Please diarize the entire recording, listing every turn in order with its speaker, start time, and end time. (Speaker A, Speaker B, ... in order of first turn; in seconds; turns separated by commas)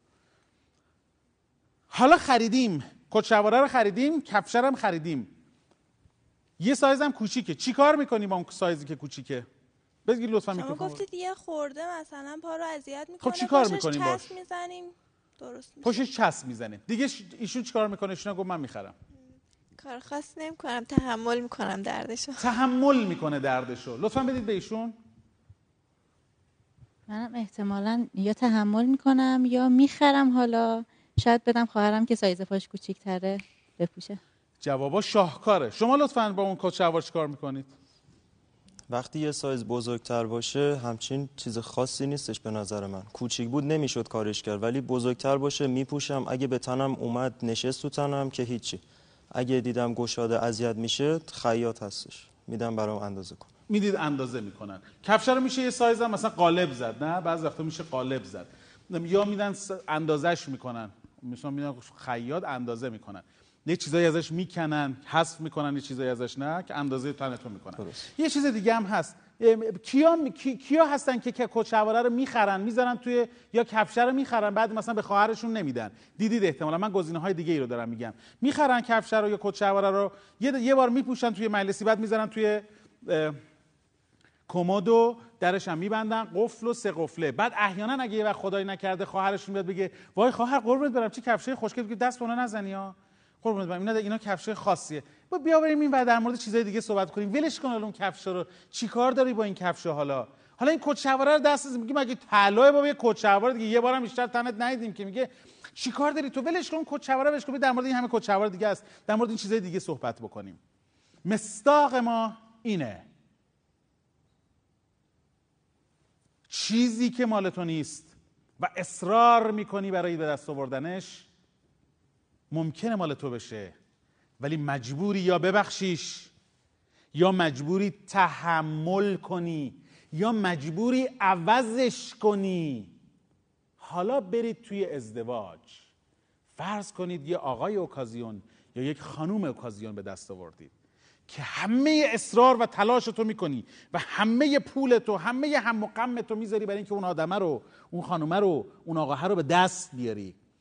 Speaker A: 1.9-5.3, Speaker A: 6.6-9.5, Speaker A: 10.1-11.0, Speaker B: 10.5-16.1, Speaker A: 13.2-14.3, Speaker A: 15.8-18.9, Speaker C: 19.8-22.5, Speaker A: 22.4-24.9, Speaker D: 27.1-34.2, Speaker A: 34.6-37.7, Speaker E: 38.9-53.5, Speaker A: 53.7-83.4, Speaker A: 84.5-110.6, Speaker A: 111.2-113.1, Speaker A: 116.5-121.3, Speaker A: 122.5-123.8, Speaker A: 124.4-126.3, Speaker A: 127.1-132.9, Speaker A: 133.8-135.8, Speaker A: 136.6-140.7, Speaker A: 141.3-150.4